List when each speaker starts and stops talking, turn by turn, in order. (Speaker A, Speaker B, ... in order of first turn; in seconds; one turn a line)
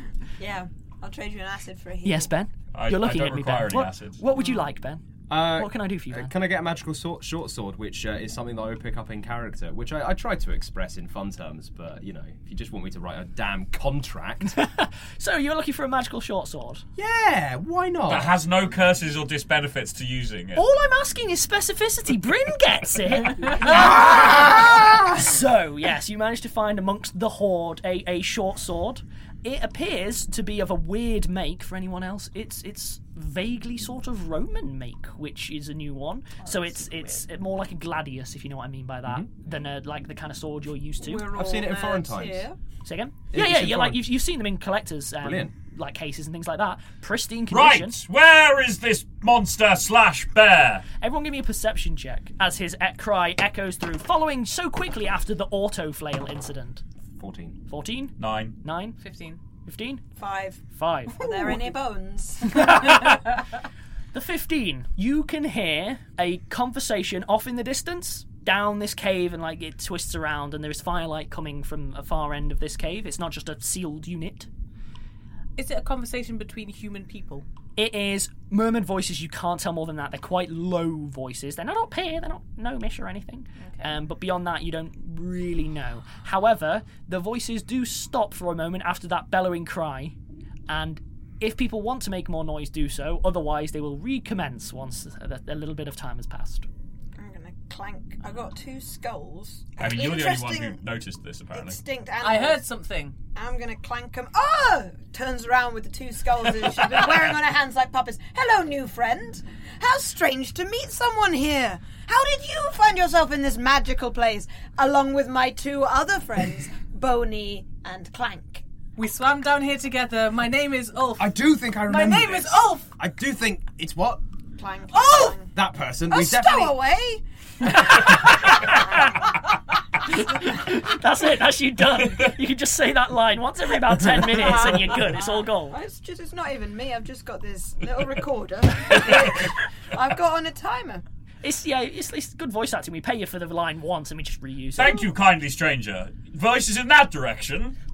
Speaker A: 0.4-2.3
Speaker B: 2.0-6.3
Speaker C: 2.7-4.2
Speaker D: 5.3-14.6
Speaker B: 14.5-16.8
Speaker D: 17.0-18.4
Speaker C: 18.1-20.6
Speaker B: 20.5-41.2
Speaker D: 23.7-24.4
Speaker E: 36.4-37.2
Speaker D: 39.0-39.3
Speaker A: 41.0-42.6
Speaker D: 41.3-42.5
Speaker B: 42.8-48.0
Speaker D: 43.3-44.1
Speaker D: 45.2-45.5
Speaker C: 47.5-50.8
Speaker B: 51.0-56.8
Speaker D: 57.1-57.6
Speaker B: 57.7-59.0
Speaker C: 58.2-58.6
Speaker E: 59.0-59.4
Speaker B: 59.6-60.0
Speaker A: 60.1-60.6
Speaker B: 60.7-61.3
Speaker A: 61.1-62.8
Speaker B: 62.5-63.2
Speaker B: 64.1-74.5
Speaker E: 75.5-77.5
Speaker B: 77.8-90.1
Speaker E: 83.6-84.0
Speaker B: 90.7-96.7
Speaker A: 97.2-100.8
Speaker C: 99.8-101.8
Speaker A: 101.5-102.6
Speaker E: 102.2-103.2
Speaker A: 103.3-118.6
Speaker E: 119.0-122.9
Speaker D: 121.2-124.2
Speaker A: 124.6-125.5
Speaker E: 125.0-125.3
Speaker D: 125.5-126.8
Speaker A: 126.0-128.9
Speaker B: 128.4-129.1
Speaker B: 130.1-135.8
Speaker A: 134.3-141.0
Speaker B: 141.4-145.0
Speaker C: 144.8-147.8